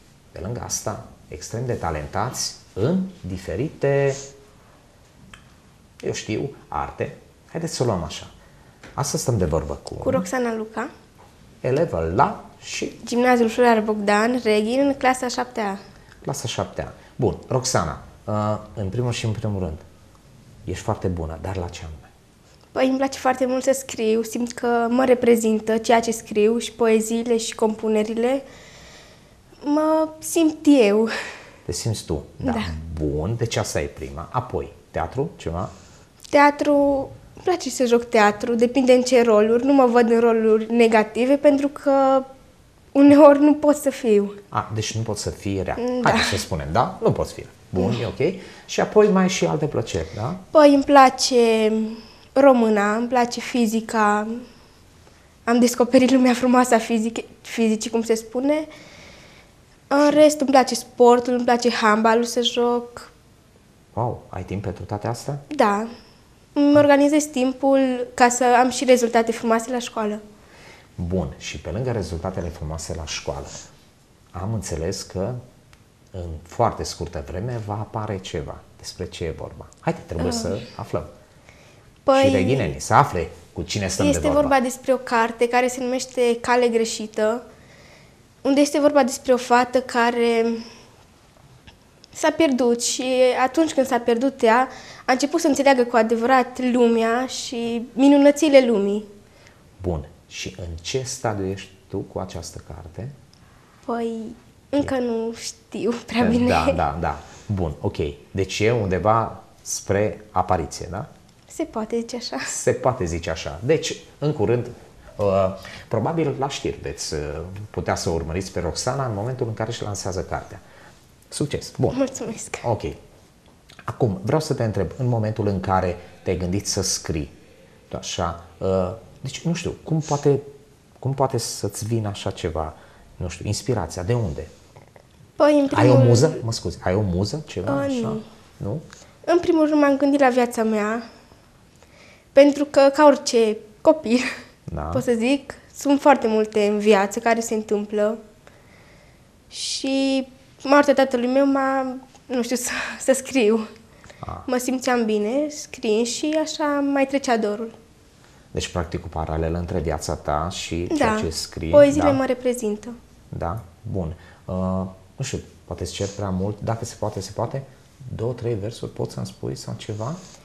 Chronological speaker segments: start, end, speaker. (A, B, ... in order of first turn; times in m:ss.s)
0:00.3-0:04.2 A
0:06.0-0:08.3 A
0:09.0-0:10.2 A
0:10.0-0:10.9 B
0:11.6-0:13.0 A
0:13.0-0:15.8 B
0:16.2-0:19.8 A
0:20.6-0:22.1 A
0:22.7-0:28.4 B
0:29.6-0:31.1 B
0:31.7-0:35.7 A
0:32.4-0:32.7 B
0:36.3-0:42.3 B
0:42.9-0:44.4 B
0:44.5-0:50.4 A
0:45.8-0:46.4 B
0:50.5-0:54.4 B
0:55.4-0:58.7 B
0:59.9-1:03.1 B
1:03.9-1:05.4 A
1:05.5-1:05.9 B
1:06.5-1:10.2 B
1:11.0-1:13.5 A
1:14.3-1:15.4 A
1:16.1-1:21.1 A
1:22.0-1:22.7 B
1:22.1-1:24.5 A
1:24.0-1:27.4 B
1:28.4-1:30.6 B
1:32.1-1:39.1 B
1:39.8-1:43.1 A
1:43.8-1:46.8 B
1:46.2-1:51.1 A
1:51.5-1:52.6 B
1:52.5-2:00.6 A
2:01.3-2:02.0 A
2:01.9-2:02.6 B
2:02.6-2:03.0 A
2:03.9-2:07.3 A
2:07.9-2:10.4 A
2:11.0-2:14.5 A
2:15.4-2:16.4 B
2:15.7-2:18.8 A
2:17.6-2:18.2 B
2:19.2-2:21.0 B
2:22.3-2:24.3 B
2:24.7-2:25.0 A
2:24.9-2:28.2 B
2:29.5-2:33.7 B
2:34.2-2:34.5 A
2:34.5-2:37.7 B
2:38.5-2:42.2 A
2:40.9-2:43.0 B
2:43.3-2:50.2 A